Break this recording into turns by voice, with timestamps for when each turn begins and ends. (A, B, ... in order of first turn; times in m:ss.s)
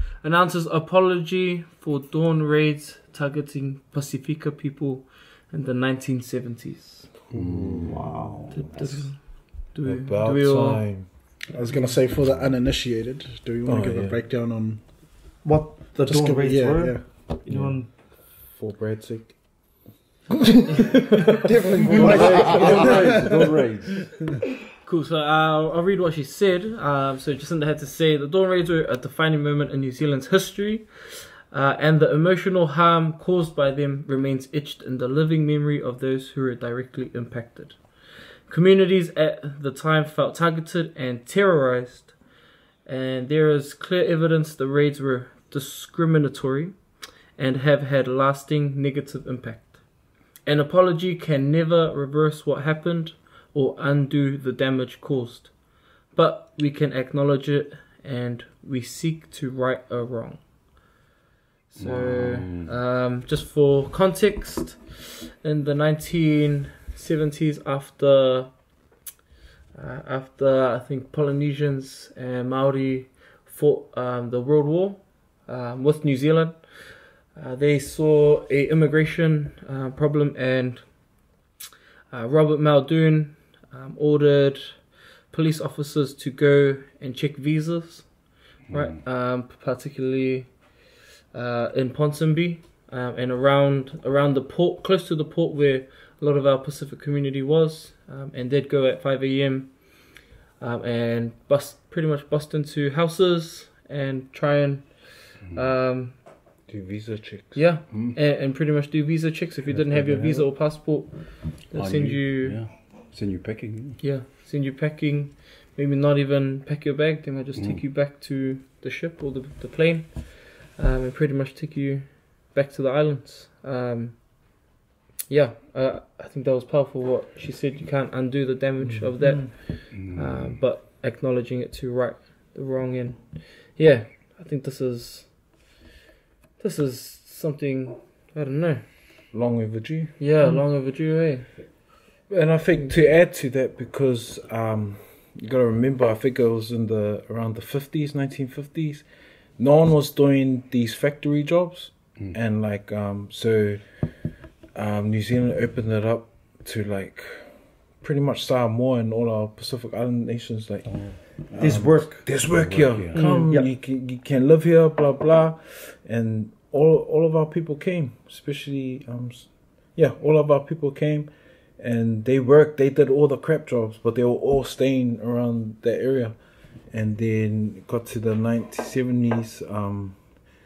0:00.2-0:07.2 A
0:07.3-0:08.2 B
0:07.3-0:09.0 C
0:07.8-0:09.1 D
0:08.5-0:11.4 A
0:09.8-0:11.4 C
0:11.5-0:15.4 E
0:12.1-0:12.5 B
0:13.6-0:14.2 C
0:15.4-0:17.9 D
0:16.0-0:17.5 E
0:17.5-0:20.0 C
0:21.1-0:23.5 D
0:21.4-0:23.7 C
0:21.9-0:23.3 E
0:21.9-0:24.2 B
0:24.8-0:42.3 A
0:42.8-1:00.5 A
1:01.7-1:08.8 A
1:01.8-1:02.7 B
1:09.7-1:21.4 A
1:22.1-1:46.2 A
1:28.7-1:29.0 B
1:45.4-1:45.7 B
1:46.6-1:47.7 C
1:47.5-1:52.6 A
1:47.9-1:48.2 B
1:49.7-1:50.9 B
1:51.7-1:54.0 B
1:54.0-2:04.7 A
1:57.5-1:57.8 B
2:05.3-2:15.7 A
2:08.8-2:09.5 C
2:09.2-2:09.5 D
2:09.9-2:10.6 B
2:16.6-2:19.3 A
2:19.3-2:20.2 C
2:20.2-2:21.9 A
2:22.3-3:00.4 C
2:40.8-2:43.4 B
2:41.6-2:42.3 D
2:43.1-2:43.5 A
2:43.2-2:43.7 D